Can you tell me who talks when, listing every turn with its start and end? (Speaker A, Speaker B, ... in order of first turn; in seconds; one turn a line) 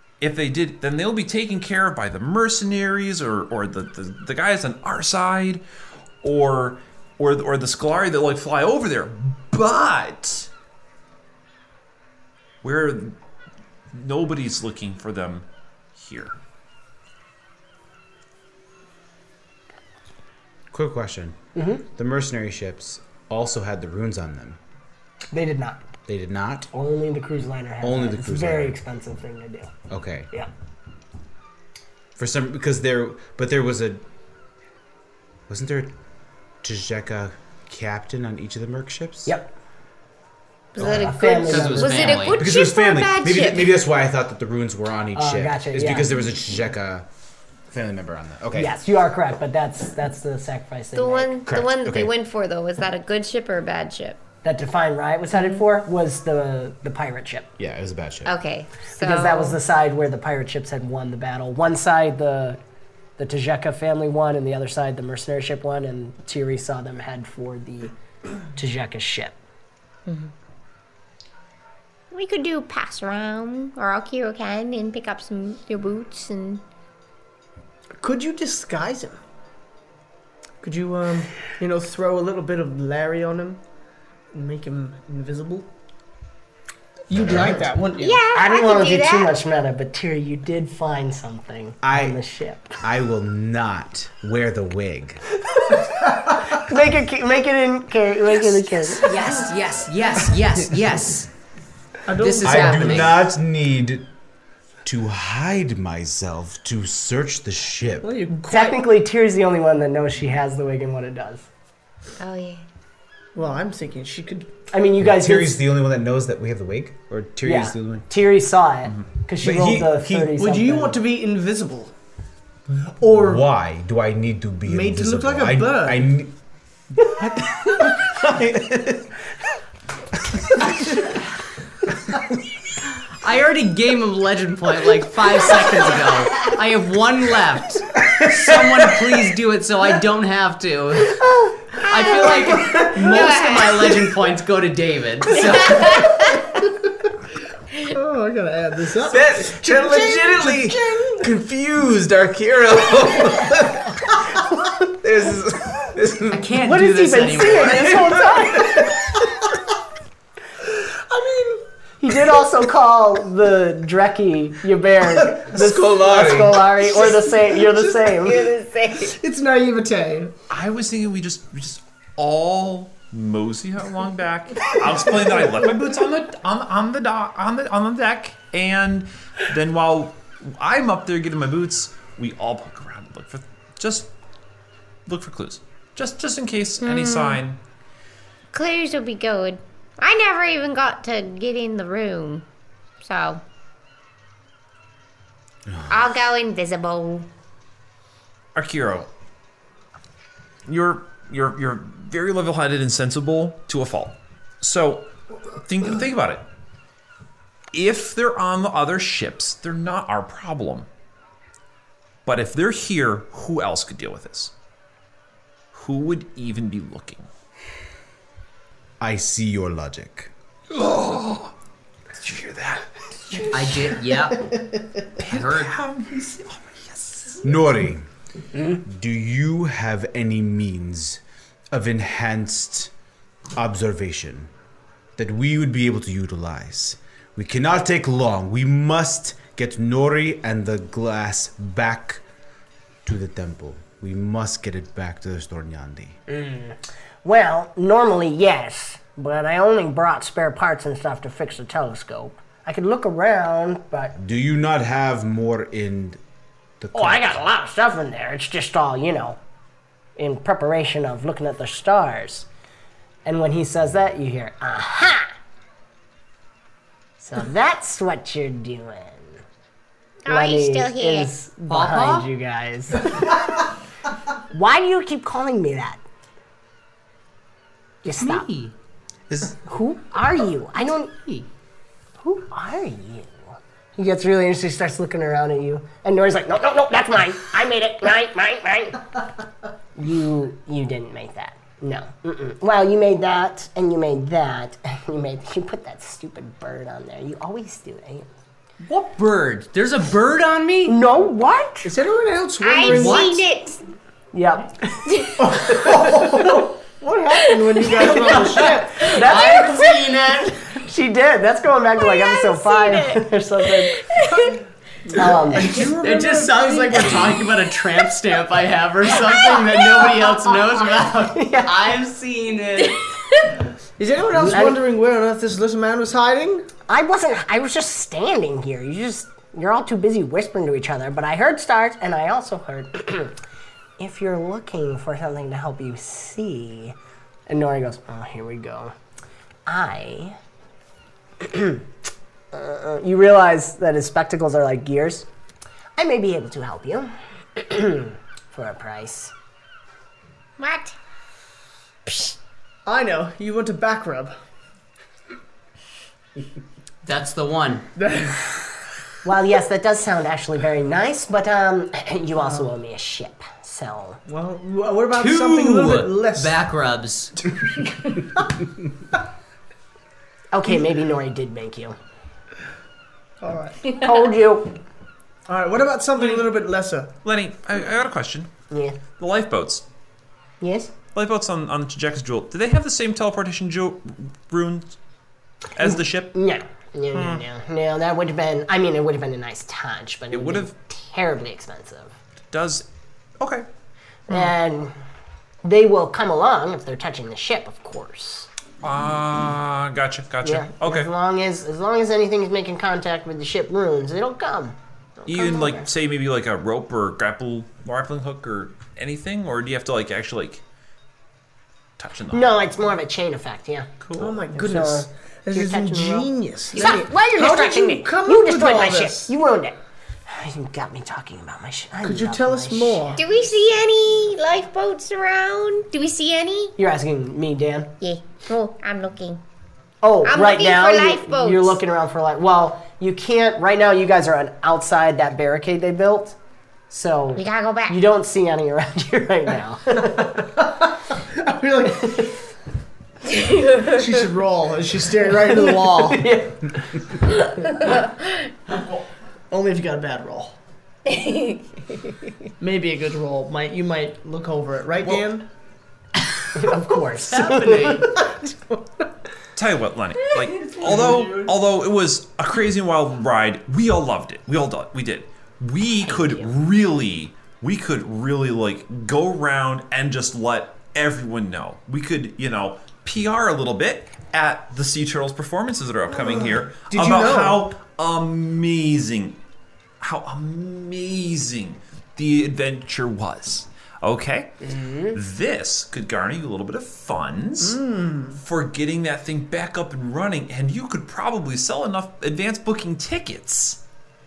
Speaker A: 0.2-5.6
Speaker A: 6.2-10.5
Speaker A: 12.6-13.2
Speaker A: 13.9-16.4
Speaker B: 20.7-21.4
Speaker C: 21.6-21.8
Speaker B: 21.9-24.6
Speaker C: 25.3-25.8
Speaker B: 26.1-26.7
Speaker C: 26.7-29.7
Speaker B: 27.8-28.8
Speaker B: 29.9-30.3
Speaker B: 32.2-34.0
Speaker B: 35.5-35.9
Speaker B: 36.6-39.3
Speaker C: 39.3-39.5
Speaker D: 40.8-43.8
Speaker C: 40.8-42.2
Speaker E: 41.5-42.4
Speaker B: 42.2-47.1
Speaker C: 45.1-46.2
Speaker B: 47.7-48.7
Speaker C: 48.6-51.4
Speaker D: 51.0-54.2
Speaker B: 51.5-52.1
Speaker C: 54.4-57.5
Speaker B: 57.6-58.3
Speaker D: 58.2-59.6
Speaker C: 59.0-62.6
Speaker C: 63.2-67.9
Speaker C: 68.5-69.3
Speaker D: 72.1-76.6
Speaker F: 78.0-79.2
Speaker F: 80.6-83.6
Speaker F: 84.3-85.7
Speaker F: 87.1-88.2
Speaker D: 88.0-89.4
Speaker C: 88.3-92.8
Speaker B: 91.8-92.2
Speaker B: 92.8-95.2
Speaker C: 96.5-99.1
Speaker E: 99.0-101.3
Speaker F: 102.1-103.1
Speaker E: 102.1-103.2
Speaker B: 102.4-104.0
Speaker B: 104.8-108.1
Speaker F: 108.0-108.8
Speaker C: 108.5-111.5
Speaker D: 112.2-112.7
Speaker F: 113.3-114.5
Speaker C: 114.7-115.6
Speaker B: 115.0-118.0
Speaker C: 117.4-121.0
Speaker B: 119.4-120.3
Speaker F: 120.4-121.9
Speaker F: 123.0-123.5
Speaker B: 123.1-126.3
Speaker F: 124.7-126.2
Speaker B: 127.0-129.1
Speaker E: 133.2-141.2
Speaker D: 141.8-144.0
Speaker E: 141.8-146.0
Speaker D: 145.3-146.4
Speaker F: 147.9-151.3
Speaker B: 149.1-154.4
Speaker B: 155.0-156.5
Speaker E: 156.3-157.9
Speaker C: 156.6-158.9
Speaker F: 157.7-158.2
Speaker B: 158.2-158.8
Speaker F: 160.7-161.7
Speaker C: 162.0-168.5
Speaker B: 165.2-166.7
Speaker D: 168.2-169.1
Speaker F: 169.0-170.3
Speaker A: 170.5-184.1
Speaker A: 185.1-187.6
Speaker D: 186.8-187.4
Speaker D: 188.5-192.4
Speaker D: 193.0-193.4
Speaker B: 195.7-196.0
Speaker D: 195.9-197.3
Speaker A: 198.5-199.1
Speaker A: 200.7-206.5
Speaker A: 207.7-210.9
Speaker A: 212.2-214.5
Speaker A: 215.7-217.3
Speaker B: 219.0-220.3
Speaker A: 220.7-221.5
Speaker A: 222.1-223.4
Speaker E: 223.5-224.5
Speaker F: 224.4-225.0
Speaker A: 225.2-227.4
Speaker E: 225.2-225.8
Speaker B: 227.4-228.1
Speaker B: 228.8-231.2
Speaker B: 231.7-232.9
Speaker B: 233.6-234.5
Speaker B: 235.2-242.2
Speaker B: 243.1-246.2
Speaker C: 246.3-254.1
Speaker B: 254.2-256.2
Speaker B: 256.8-257.4
Speaker C: 256.9-259.4
Speaker C: 260.2-262.5
Speaker C: 263.2-265.3
Speaker C: 267.2-269.4
Speaker D: 270.2-271.3
Speaker C: 270.3-273.4
Speaker E: 271.7-272.3
Speaker C: 274.5-276.0
Speaker C: 278.0-278.5
Speaker E: 278.1-278.7
Speaker B: 279.3-279.6
Speaker C: 279.7-281.1
Speaker E: 280.8-281.5
Speaker C: 282.2-289.2
Speaker C: 290.0-298.3
Speaker E: 298.8-301.0
Speaker C: 300.9-301.9
Speaker F: 301.8-303.4
Speaker D: 302.6-303.8
Speaker E: 302.8-303.4
Speaker C: 304.3-305.0
Speaker D: 305.1-305.6
Speaker F: 305.4-309.2
Speaker C: 305.8-306.2
Speaker D: 307.4-307.7
Speaker C: 308.2-310.1
Speaker E: 308.3-310.6
Speaker D: 309.4-309.9
Speaker C: 310.6-314.1
Speaker D: 312.0-313.2
Speaker D: 314.0-314.6
Speaker C: 315.2-315.7
Speaker E: 315.2-323.0
Speaker F: 316.0-317.0
Speaker C: 321.2-321.8
Speaker F: 324.0-326.7
Speaker C: 324.3-324.8
Speaker C: 326.9-333.4
Speaker C: 334.0-337.0
Speaker C: 337.5-338.9
Speaker C: 339.7-340.4
Speaker C: 341.4-341.8
Speaker C: 342.5-345.3
Speaker C: 346.0-349.3
Speaker D: 350.6-350.9
Speaker F: 352.9-354.4
Speaker E: 357.0-357.9
Speaker F: 358.0-358.5
Speaker C: 359.2-364.2
Speaker F: 362.4-362.7
Speaker F: 364.3-366.6
Speaker E: 365.1-367.4
Speaker C: 370.5-372.0
Speaker F: 373.4-373.8
Speaker C: 373.9-374.8
Speaker F: 375.5-377.1
Speaker A: 377.2-378.5
Speaker C: 378.7-379.0
Speaker A: 379.2-379.9
Speaker C: 380.6-380.9
Speaker A: 381.1-385.0
Speaker A: 385.8-386.4
Speaker C: 386.3-392.1
Speaker A: 387.1-387.4
Speaker A: 390.3-390.7
Speaker A: 392.5-392.9
Speaker A: 393.4-393.7
Speaker C: 394.3-394.9
Speaker C: 395.6-398.5
Speaker A: 398.8-401.1
Speaker C: 400.4-405.9
Speaker A: 405.3-410.6
Speaker A: 412.0-412.7
Speaker C: 412.3-413.9
Speaker A: 414.0-414.4
Speaker F: 414.2-419.3
Speaker C: 414.5-419.8
Speaker C: 420.3-423.2
Speaker F: 422.0-423.2
Speaker D: 423.2-426.8
Speaker C: 426.8-427.9
Speaker D: 428.0-429.4
Speaker C: 430.0-436.4
Speaker D: 430.2-431.8
Speaker C: 436.9-440.4
Speaker D: 437.4-438.0
Speaker F: 440.0-442.3
Speaker C: 442.0-442.3
Speaker F: 443.8-446.5
Speaker C: 445.6-446.8
Speaker F: 449.5-450.6
Speaker D: 451.1-451.8
Speaker F: 452.6-455.5
Speaker C: 456.6-458.1
Speaker E: 457.3-458.1
Speaker F: 457.7-458.8
Speaker A: 459.6-479.4
Speaker C: 466.0-466.5
Speaker F: 476.2-477.7
Speaker A: 480.0-484.6
Speaker C: 484.6-485.2
Speaker A: 485.1-487.8
Speaker F: 487.6-488.4
Speaker A: 488.3-493.8